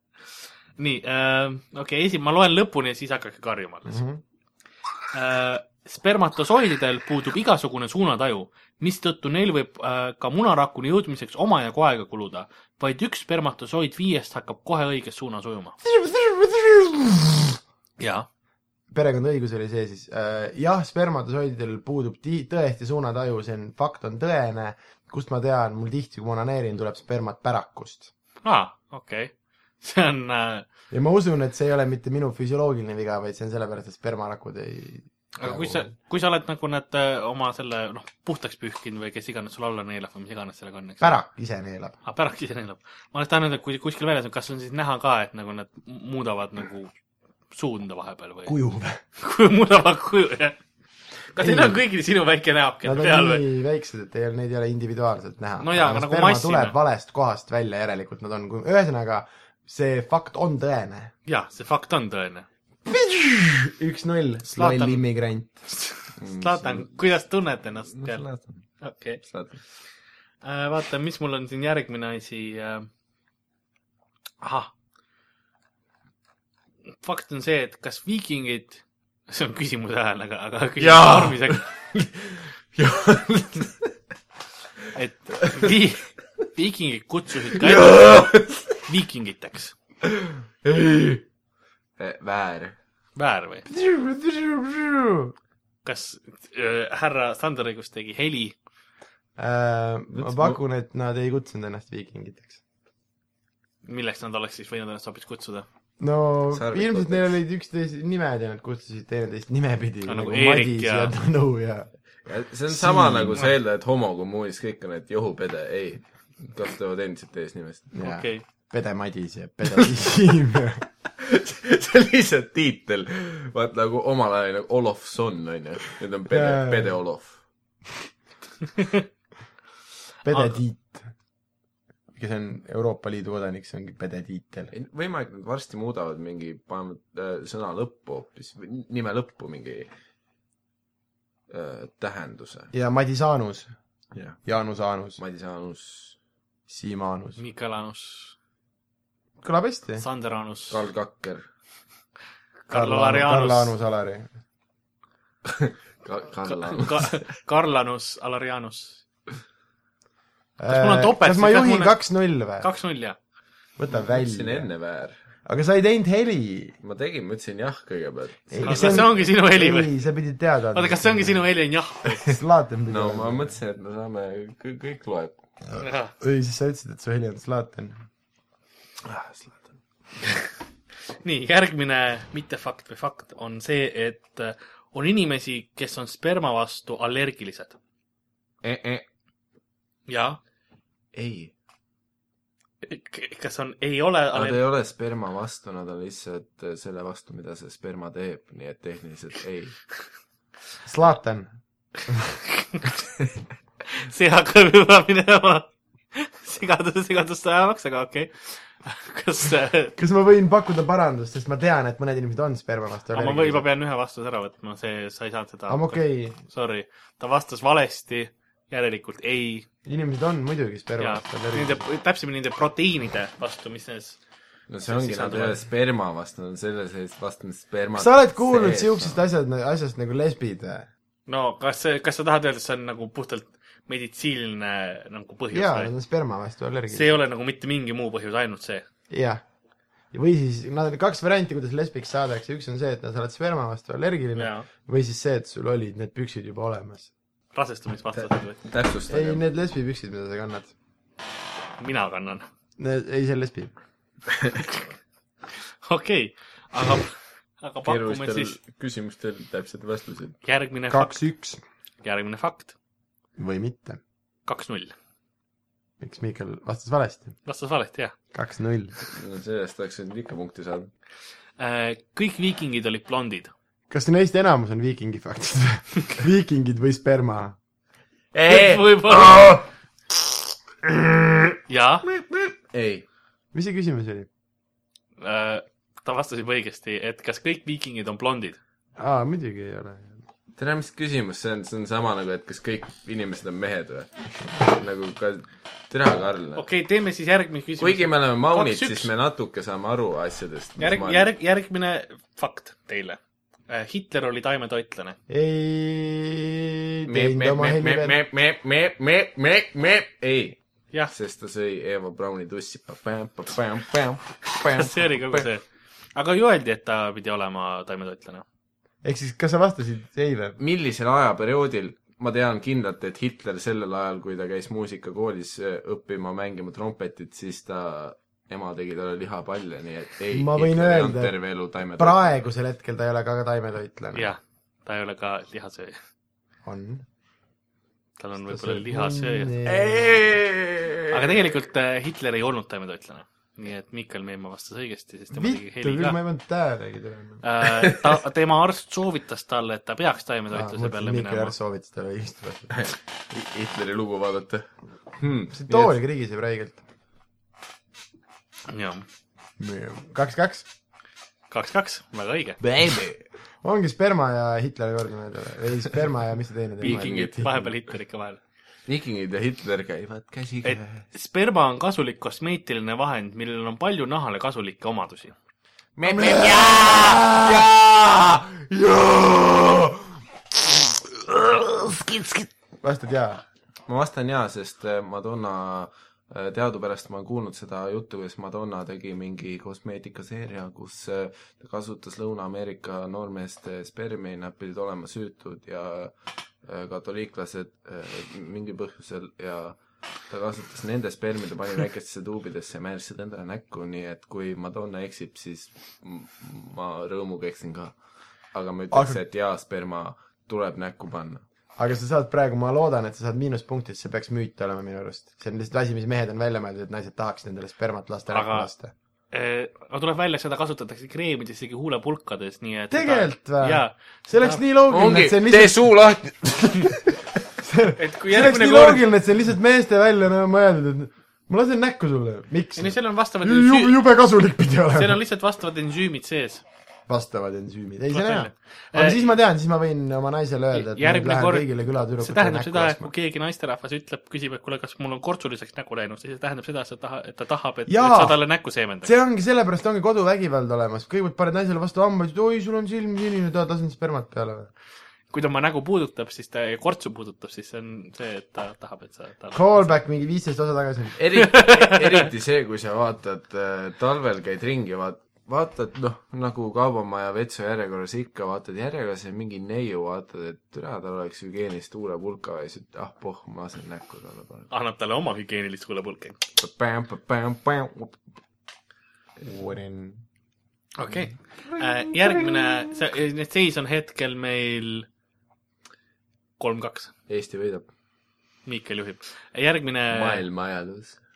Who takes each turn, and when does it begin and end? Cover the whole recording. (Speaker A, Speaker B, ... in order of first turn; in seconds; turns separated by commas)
Speaker A: 0.8-4.0, Speaker B: 3.9-4.2, Speaker A: 5.1-15.8, Speaker B: 16.2-17.4, Speaker A: 18.0-18.3, Speaker B: 18.9-28.1, Speaker A: 28.4-30.6, Speaker B: 30.9-35.9, Speaker A: 35.4-41.2, Speaker B: 41.0-42.0, Speaker A: 42.0-46.9, Speaker A: 47.5-48.5, Speaker B: 48.5-49.0, Speaker A: 49.2-50.6, Speaker A: 51.3-53.4, Speaker B: 51.4-51.8, Speaker B: 52.8-61.1, Speaker A: 55.6-56.8, Speaker A: 61.2-62.5, Speaker B: 62.9-65.6, Speaker A: 64.5-65.0, Speaker A: 65.7-68.2, Speaker C: 66.2-67.0, Speaker C: 67.9-68.6, Speaker A: 68.8-69.2, Speaker C: 69.2-69.6, Speaker A: 70.4-72.9, Speaker A: 74.4-74.7, Speaker A: 77.0-81.6, Speaker C: 80.8-83.9, Speaker A: 84.9-88.3, Speaker C: 87.5-88.8, Speaker A: 88.8-89.8, Speaker C: 90.0-91.2, Speaker C: 92.0-92.8, Speaker A: 93.2-93.7, Speaker B: 93.7-95.3, Speaker A: 95.8-98.5, Speaker B: 99.4-102.6, Speaker C: 100.1-100.6, Speaker A: 103.8-105.7, Speaker B: 106.0-111.9, Speaker C: 106.5-107.3, Speaker A: 110.0-111.1, Speaker C: 112.2-117.9, Speaker B: 112.7-113.5, Speaker B: 117.9-120.8, Speaker A: 118.0-118.4, Speaker C: 121.2-127.4, Speaker B: 126.3-127.0, Speaker B: 130.2-131.1, Speaker A: 130.3-130.5, Speaker B: 132.1-134.7, Speaker C: 134.7-139.9, Speaker C: 141.5-142.7, Speaker B: 142.7-143.7, Speaker C: 144.1-144.4, Speaker B: 144.4-145.2, Speaker C: 145.2-146.2, Speaker B: 146.7-147.4, Speaker A: 147.4-148.3, Speaker B: 149.4-150.0, Speaker A: 150.0-150.8, Speaker C: 150.7-151.4, Speaker A: 152.7-153.7, Speaker B: 152.7-154.3, Speaker C: 155.5-157.2, Speaker A: 156.5-159.0, Speaker B: 160.6-162.7, Speaker A: 160.7-161.9, Speaker A: 162.6-163.2, Speaker B: 163.8-164.7, Speaker C: 163.9-165.2, Speaker B: 165.4-166.8, Speaker C: 166.8-169.1, Speaker B: 168.5-171.4, Speaker A: 168.6-169.9, Speaker A: 170.7-172.2, Speaker B: 172.2-173.6, Speaker C: 172.9-175.3, Speaker A: 175.8-176.1, Speaker B: 176.2-178.0, Speaker C: 179.0-179.7, Speaker A: 181.2-187.8, Speaker C: 188.6-189.0, Speaker A: 190.1-190.4, Speaker C: 191.1-191.5, Speaker A: 192.8-194.6, Speaker C: 194.3-199.8, Speaker B: 200.8-201.5, Speaker A: 202.5-203.0, Speaker A: 203.9-209.9, Speaker B: 210.0-213.6, Speaker A: 213.1-219.7, Speaker B: 215.7-216.4, Speaker B: 219.8-221.8, Speaker A: 221.0-224.2, Speaker C: 224.7-229.2, Speaker A: 224.9-225.6, Speaker B: 228.0-230.9, Speaker A: 231.3-235.9, Speaker B: 235.5-237.2, Speaker A: 236.9-238.8, Speaker B: 239.1-239.4, Speaker B: 240.1-247.1, Speaker A: 244.3-244.7, Speaker A: 247.5-248.6, Speaker C: 248.1-249.4, Speaker B: 249.1-250.7, Speaker A: 251.8-252.5, Speaker B: 252.8-253.7, Speaker C: 254.3-254.6, Speaker A: 255.5-258.6, Speaker C: 257.8-260.4, Speaker A: 260.4-261.2, Speaker B: 260.9-261.6, Speaker A: 262.0-262.7, Speaker B: 263.4-264.0, Speaker A: 264.4-264.9, Speaker B: 266.0-267.3, Speaker A: 267.4-268.1, Speaker B: 268.3-268.9, Speaker C: 269.1-270.9, Speaker A: 271.6-273.5, Speaker B: 273.9-277.6, Speaker C: 278.3-279.7, Speaker A: 278.5-279.5, Speaker C: 280.8-283.0, Speaker A: 281.7-282.0, Speaker B: 283.5-284.3, Speaker A: 285.2-288.6, Speaker B: 289.0-290.2, Speaker C: 290.6-296.6, Speaker A: 296.6-299.1, Speaker C: 297.8-301.3, Speaker A: 300.8-305.2, Speaker B: 305.3-308.1, Speaker C: 307.1-310.6, Speaker C: 311.1-315.4, Speaker A: 314.7-315.6, Speaker A: 316.1-318.4, Speaker B: 319.0-320.6, Speaker C: 320.6-332.4, Speaker B: 330.3-331.3, Speaker B: 332.0-334.3, Speaker A: 334.1-336.0, Speaker B: 336.6-337.1, Speaker A: 338.2-339.6, Speaker B: 338.5-340.1, Speaker C: 339.6-341.3, Speaker A: 341.1-346.2, Speaker B: 345.3-347.4, Speaker A: 347.4-351.5, Speaker C: 347.7-348.1, Speaker B: 350.5-352.7, Speaker C: 352.7-355.9, Speaker B: 355.5-356.8, Speaker A: 358.7-359.0, Speaker B: 359.6-360.7, Speaker A: 361.5-362.6, Speaker C: 362.6-363.2, Speaker B: 363.6-367.5, Speaker A: 366.8-368.4, Speaker C: 366.8-367.7, Speaker C: 368.9-371.0, Speaker A: 370.6-375.3, Speaker C: 375.9-380.1, Speaker B: 376.1-377.7, Speaker C: 380.7-382.5, Speaker B: 382.8-383.4, Speaker C: 383.9-396.1, Speaker C: 396.6-399.8, Speaker C: 400.3-407.9, Speaker C: 408.5-411.4, Speaker B: 408.9-409.2, Speaker B: 411.8-418.9, Speaker A: 418.3-418.7, Speaker A: 419.3-424.6, Speaker B: 422.9-425.8, Speaker C: 424.9-427.2, Speaker B: 427.6-435.2, Speaker A: 428.0-429.0, Speaker A: 432.8-434.0, Speaker A: 434.9-436.6, Speaker B: 437.1-443.1, Speaker A: 438.1-439.3, Speaker A: 440.7-449.1, Speaker B: 447.9-448.4, Speaker B: 449.0-454.7, Speaker A: 455.3-459.9, Speaker B: 459.5-461.2, Speaker C: 461.2-474.7, Speaker A: 461.3-462.3, Speaker A: 474.7-476.4, Speaker C: 476.6-478.2, Speaker B: 479.4-480.2, Speaker A: 481.0-485.1, Speaker A: 486.6-487.1, Speaker C: 487.3-487.8, Speaker A: 488.6-490.4, Speaker C: 490.1-491.2